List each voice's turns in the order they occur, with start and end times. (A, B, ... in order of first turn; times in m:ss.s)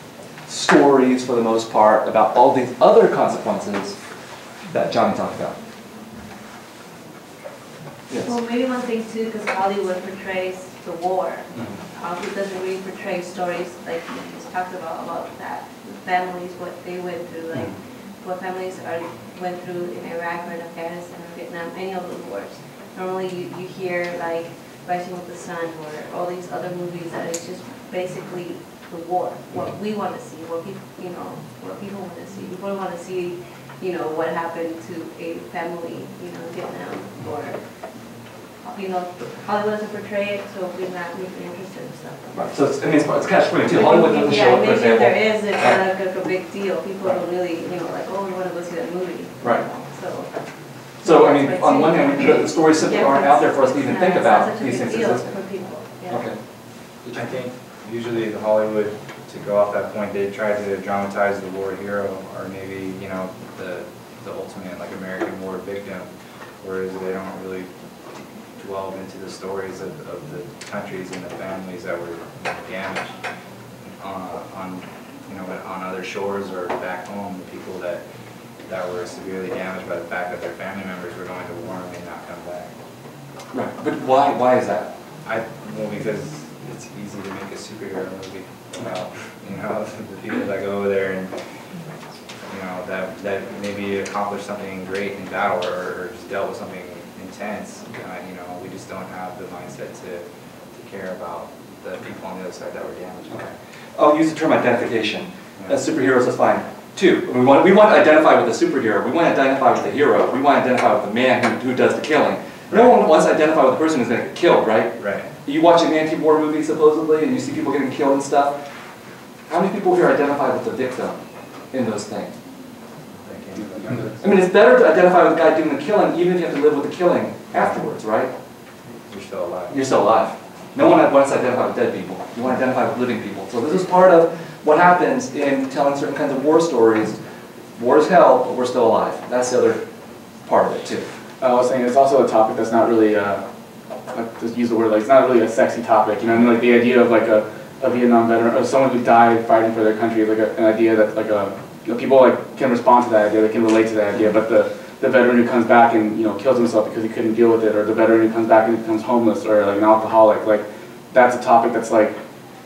0:00.5-0:04.0 A
0:04.7-0:05.6 A
0:08.1-0:08.4 A
0:08.2-0:37.6 B
0:38.6-0:42.3 B
0:42.3-0:45.8 A
0:43.7-0:50.3 B
0:51.0-0:56.3 B
0:51.0-0:55.4 A
0:56.1-0:56.4 A
0:57.0-0:57.4 A
0:57.4-1:06.0 C
1:06.6-1:07.7 C
1:08.6-1:13.1 C
1:14.0-1:18.0 C
1:18.7-1:22.7 C
1:23.5-1:24.9 A
1:25.3-1:31.3 C
1:32.5-1:40.2 C
1:40.8-1:43.5 C
1:43.3-1:58.6 A
1:55.0-1:55.3 C
1:59.5-2:01.2 A
2:01.7-2:02.3 A
2:03.2-2:04.0 C
2:04.2-2:08.3 A
2:09.1-2:09.8 C
2:09.7-2:17.2 A
2:17.8-2:19.8 A
2:20.5-2:21.1 A
2:21.4-2:23.4 D
2:24.1-2:42.2 D